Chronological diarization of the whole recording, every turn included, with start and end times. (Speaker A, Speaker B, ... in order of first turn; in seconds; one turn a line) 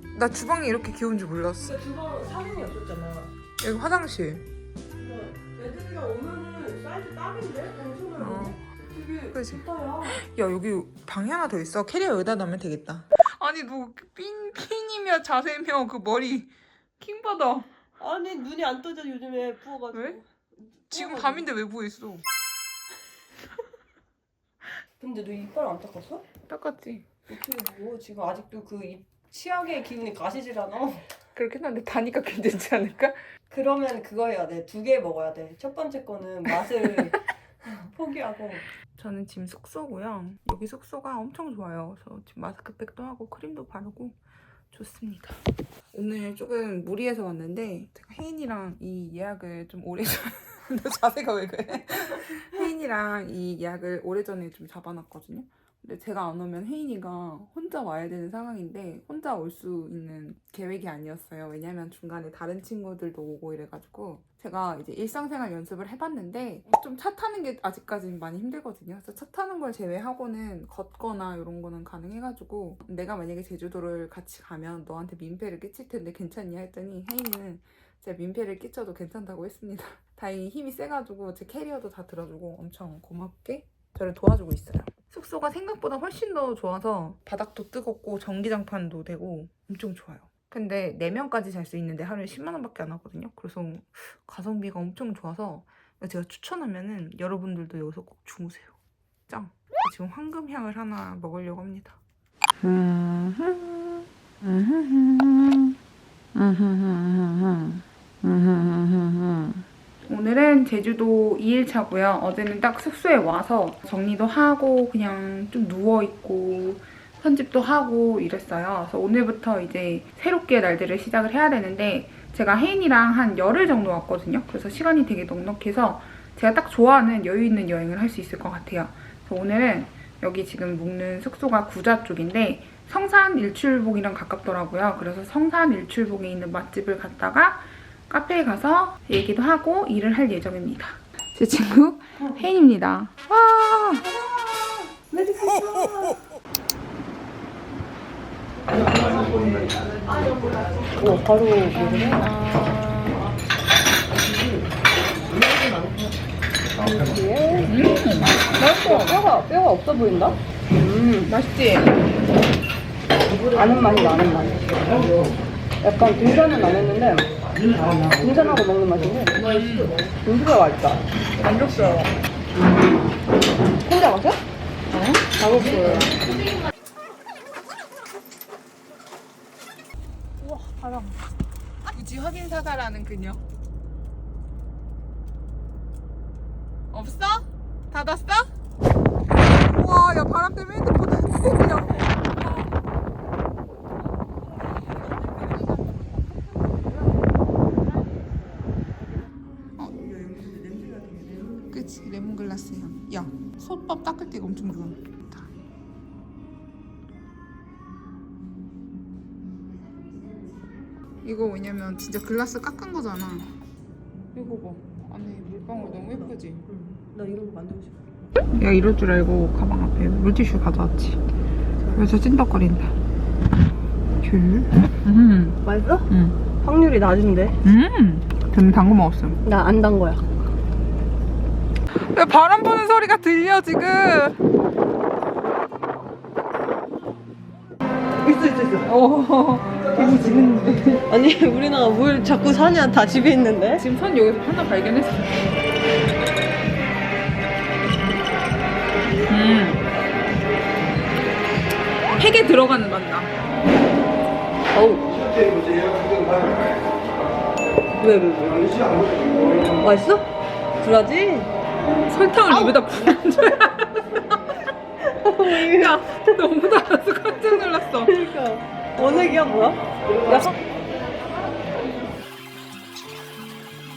Speaker A: 0.1-1.8
Speaker B: 1.6-3.3
Speaker A: 3.6-4.5
Speaker B: 5.0-10.2
Speaker A: 8.2-8.6
Speaker A: 9.3-17.7
Speaker B: 18.0-20.2
Speaker A: 19.9-20.2
Speaker B: 20.9-21.5
Speaker A: 20.9-22.2
Speaker B: 25.0-26.2
Speaker A: 26.5-27.1
Speaker B: 27.3-31.1
Speaker A: 31.4-33.2
Speaker B: 33.5-38.7
Speaker A: 39.0-44.2
Speaker A: 44.7-45.4
Speaker A: 45.9-98.8
Speaker A: 99.3-102.0
Speaker A: 102.6-105.8
Speaker A: 106.3-144.1
Speaker B: 145.1-146.2
Speaker B: 148.8-152.3
Speaker A: 151.7-153.2
Speaker B: 155.4-156.0
Speaker B: 156.8-157.7
Speaker A: 157.7-159.2
Speaker B: 158.4-161.3
Speaker A: 161.3-162.0
Speaker B: 163.5-165.0
Speaker B: 165.8-167.3
Speaker B: 168.1-169.4
Speaker A: 169.4-170.0
Speaker B: 170.1-171.0
Speaker A: 171.4-172.1
Speaker B: 173.8-174.4
Speaker A: 174.9-175.3
Speaker B: 175.3-176.2
Speaker B: 180.4-181.2
Speaker A: 181.9-183.4
Speaker A: 186.9-188.5
Speaker A: 189.3-192.5
Speaker A: 199.8-200.1
Speaker B: 200.0-201.7
Speaker A: 201.7-205.5
Speaker A: 211.2-213.5
Speaker A: 214.3-216.7
Speaker B: 216.7-218.0
Speaker A: 218.5-221.2
Speaker B: 221.8-222.1
Speaker A: 221.9-222.9
Speaker A: 224.4-226.4
Speaker B: 225.6-226.1
Speaker B: 226.6-227.6
Speaker A: 227.6-229.4
Speaker B: 229.4-230.2
Speaker A: 231.9-234.3
Speaker A: 238.4-241.0
Speaker B: 239.9-243.8
Speaker A: 243.8-245.6
Speaker A: 249.3-249.8
Speaker A: 252.2-253.3
Speaker B: 254.7-255.0
Speaker B: 258.0-259.0
Speaker B: 259.7-260.3
Speaker B: 260.8-261.5
Speaker A: 262.0-264.2
Speaker B: 262.5-262.9
Speaker B: 265.0-266.4
Speaker A: 265.4-268.2
Speaker B: 268.0-270.6